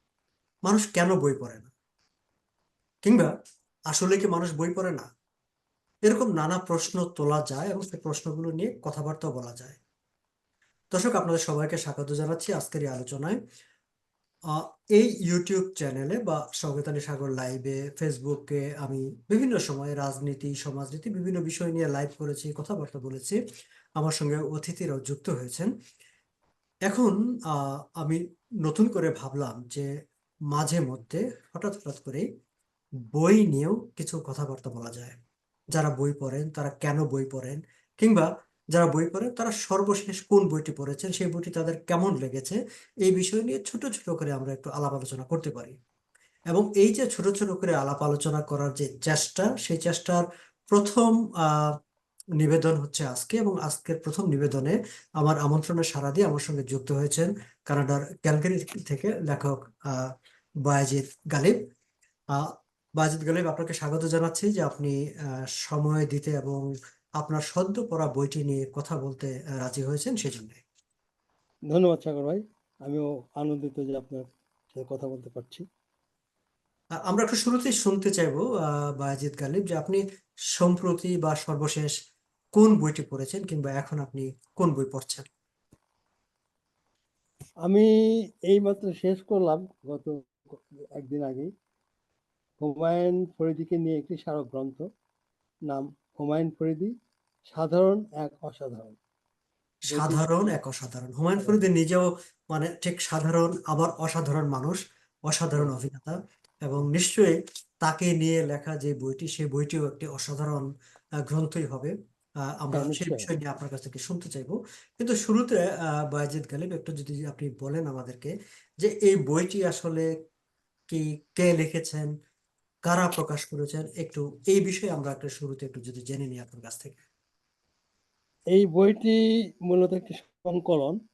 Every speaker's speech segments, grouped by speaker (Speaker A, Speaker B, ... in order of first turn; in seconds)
Speaker A: 0.7-1.7, 3.0-3.3, 3.9-5.1, 6.0-9.8, 10.9-13.4, 14.5-23.4, 24.0-25.7, 26.9-29.9, 30.5-32.2, 33.1-35.2, 35.7-45.8, 46.5-51.7, 52.4-60.0, 60.7-61.5, 62.3-65.0, 65.6-66.7, 67.2-70.6, 77.1-78.4, 79.0-80.0, 80.6-81.9, 82.5-85.3, 99.9-110.7, 111.3-111.9, 112.6-120.1, 120.9-122.1, 122.8-127.0
Speaker B: 71.7-75.6, 88.5-91.5, 92.6-94.8, 95.7-96.9, 97.5-99.0, 99.9-100.2, 112.7-113.3, 128.5-131.0